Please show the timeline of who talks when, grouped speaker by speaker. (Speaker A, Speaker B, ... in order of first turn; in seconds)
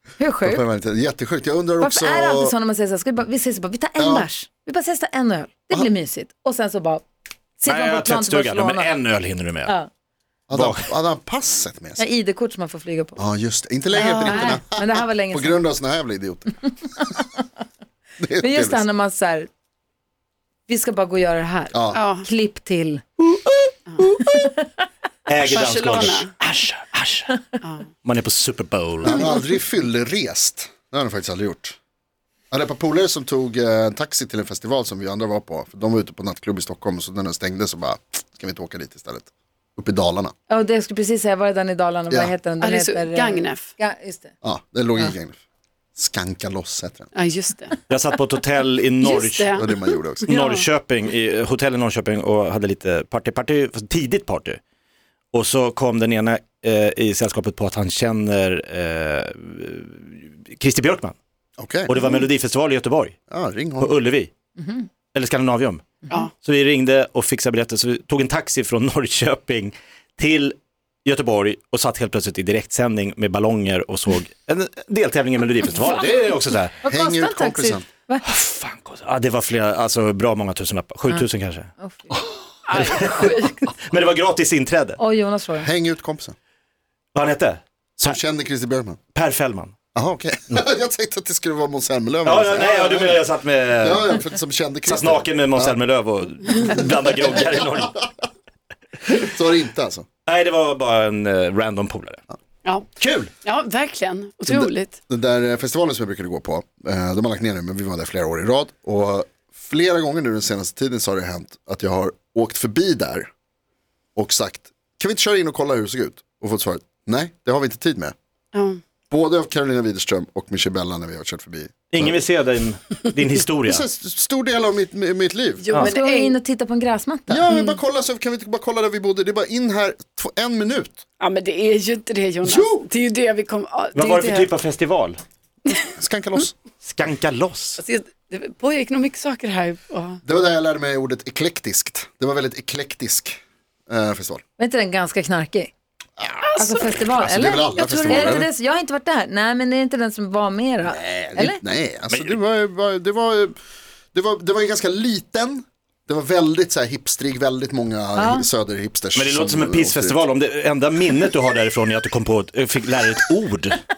Speaker A: 0.2-0.6, 1.8-7.0, 7.6-8.9, 12.0-13.2, 13.9-15.6, 18.4-19.5, 20.7-23.0, 24.2-24.6, 40.5-44.3, 64.6-64.8, 76.8-78.3, 81.8-82.2, 85.0-85.7, 125.7-127.4, 144.6-145.7, 146.6-151.6, 158.2-158.4
Speaker B: 0.4-2.5, 4.0-4.3, 10.5-12.0, 13.2-16.6, 18.2-18.9, 21.7-22.0, 23.2-24.5, 25.4-26.1, 29.0-31.8, 32.5-40.3, 44.4-45.4, 46.0-47.1, 49.6-50.3, 61.6-62.0, 63.3-63.9, 76.9-77.8, 85.6-86.3, 88.0-89.0, 89.9-93.2, 93.8-95.8, 96.7-97.7, 99.1-100.0, 104.5-113.3, 114.2-118.1, 119.1-122.2, 123.7-125.7, 127.3-131.0, 132.4-132.9, 135.9-136.5, 140.2-144.4, 146.2-146.5, 147.1-148.5, 151.3-153.6, 154.1-160.2
Speaker C: 7.7-9.8, 10.5-10.9, 25.3-27.4, 28.0-29.3, 47.9-49.6, 50.3-54.6, 55.3-61.1, 61.9-63.2, 63.8-64.3, 65.1-76.8, 78.2-81.7, 82.8-85.0, 87.1-88.1, 89.1-89.7, 92.2-94.2, 94.8-98.0, 100.2-102.2, 103.0-103.3, 121.9-123.8, 133.9-135.2, 136.8-137.8, 152.1-152.4, 159.1-163.8
Speaker D: 14.0-14.5, 21.9-22.2, 25.5-26.3, 27.6-27.9, 42.6-43.7, 47.1-47.8, 49.0-50.6, 82.7-83.6, 102.6-102.9, 103.4-105.0, 118.5-118.8, 125.6-126.3, 127.5-127.8, 131.2-134.5, 137.8-140.2, 146.4-147.0, 147.8-148.4